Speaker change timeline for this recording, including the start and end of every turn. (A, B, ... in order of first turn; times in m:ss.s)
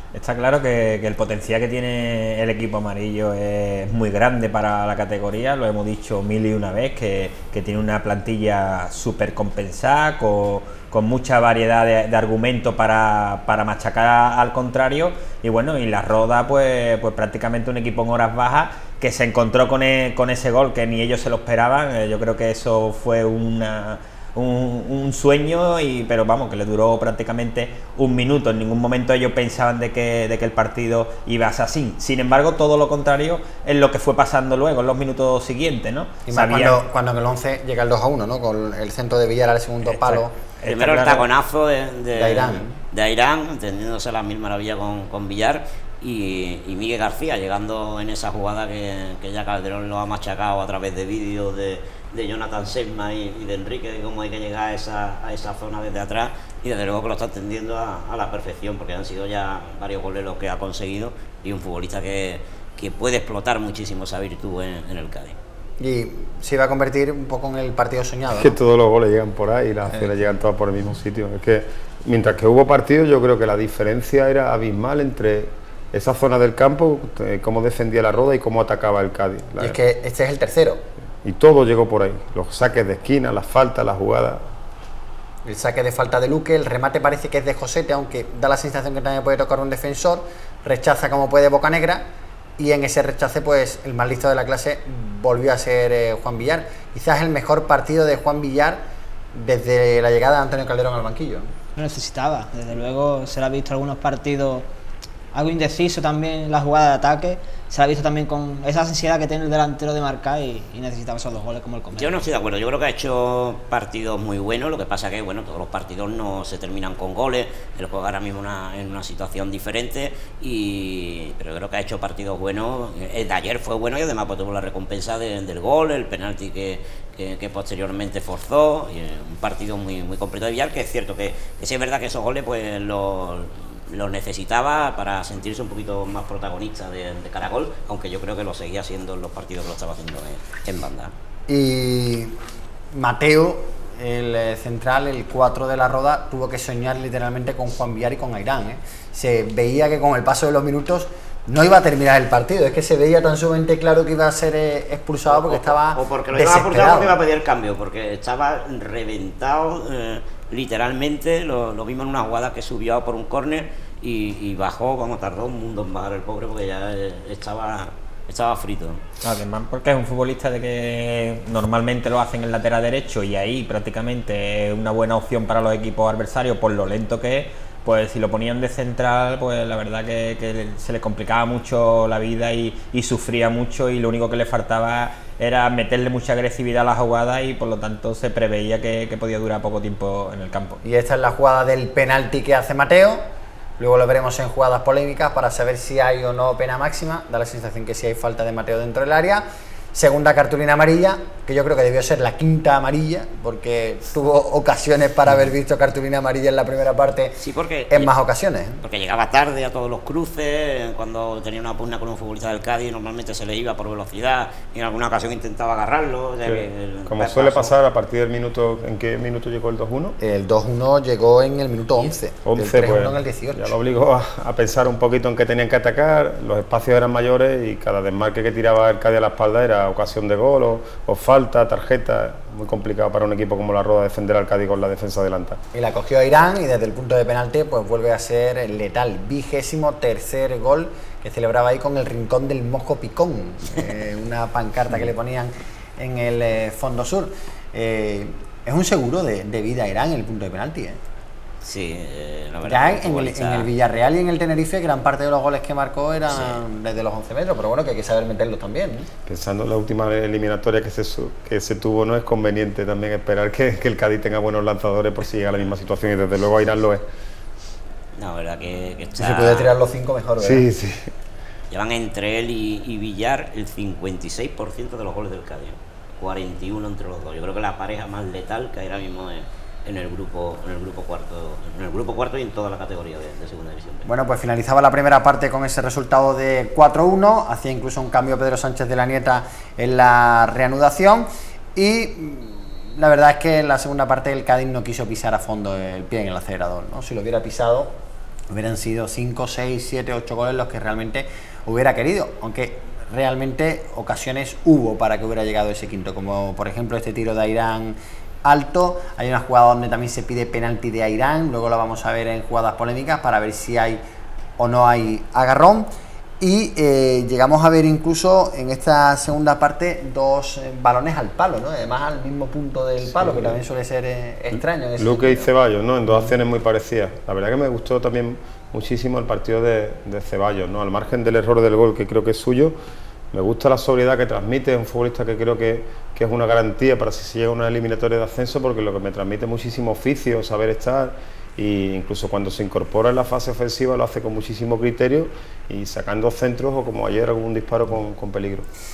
0:00.1-0:36.8 A
0:36.3-0:40.4 B
0:39.8-0:41.3 A
0:40.7-1:05.4 C
0:42.2-0:42.8 B
1:05.8-1:08.5 B
1:08.3-1:19.8 D
1:19.6-1:20.8 B
1:21.2-1:24.4 D
1:25.4-1:32.0 B
1:32.6-1:38.8 B
1:39.3-1:41.5 B
1:41.8-1:44.7 E
1:45.3-1:52.3 E
1:52.0-2:21.1 C
2:21.5-2:22.4 B
2:22.9-2:37.2 B
2:35.3-2:49.0 C
2:49.2-3:10.8 A
3:10.8-3:13.2 B
3:13.8-3:28.8 B
3:27.4-3:28.1 C
3:28.8-3:37.7 C
3:36.4-3:40.2 D
3:40.2-3:43.7 B
3:42.5-3:55.6 D
3:55.7-4:11.0 B
4:11.6-4:13.7 C
4:12.7-4:19.1 B
4:16.3-4:16.6 C
4:19.3-4:27.0 D
4:28.2-4:29.8 C
4:29.2-4:30.6 B
4:30.4-4:31.1 D
4:31.7-4:44.1 C
4:44.1-4:57.9 B
4:58.5-5:14.0 B
5:14.6-5:15.9 B
5:16.4-5:25.5 B
5:23.1-5:23.6 D
5:24.5-5:32.8 D
5:33.3-5:48.7 D